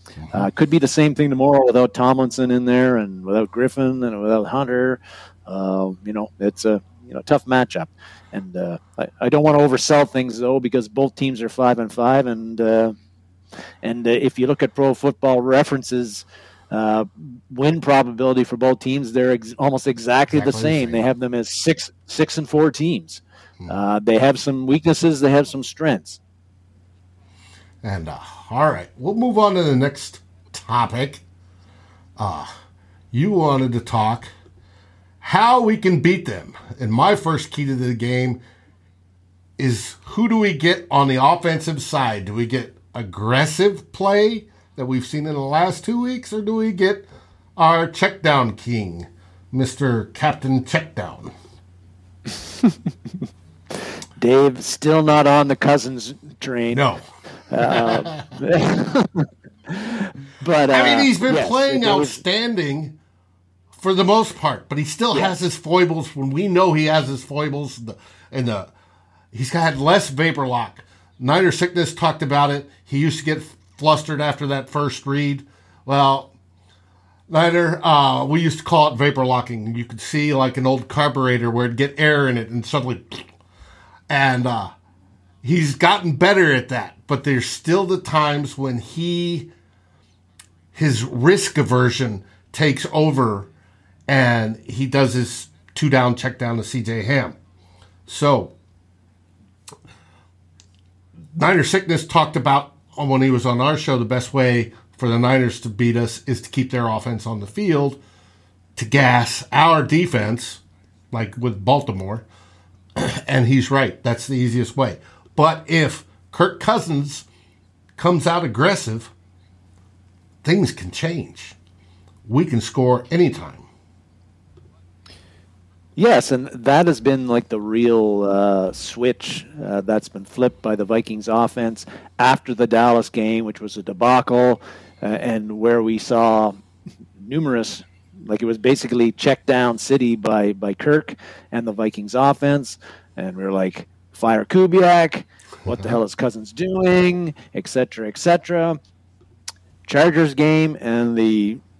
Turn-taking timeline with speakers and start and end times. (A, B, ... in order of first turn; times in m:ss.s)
0:00.3-0:12.9 A
0:13.8-0:26.2 A
0:20.3-0:21.0 B
0:27.8-0:31.2 B
0:32.2-0:32.6 B
0:33.1-0:34.3 B
0:35.2-0:38.4 B
0:39.6-0:47.0 B
0:47.6-0:51.3 B
0:54.2-0:56.8 A
0:56.7-0:57.0 B
0:57.5-1:02.2 A
0:57.6-0:58.2 B
1:00.7-1:03.0 B
1:03.7-1:08.7 B
1:09.3-1:16.3 B
1:17.3-1:23.3 B
1:24.1-1:24.7 B
1:25.4-1:29.5 B
1:30.7-1:33.5 B
1:34.1-1:37.4 B
1:38.1-1:38.5 B
1:41.4-1:48.0 B
1:48.8-1:52.2 B
1:53.0-1:57.3 B
1:58.0-1:59.1 B
2:00.4-2:01.6 B
2:02.2-2:03.7 B
2:06.0-2:16.6 A
2:17.2-2:28.8 A
2:25.6-2:26.0 B
2:29.8-2:31.6 A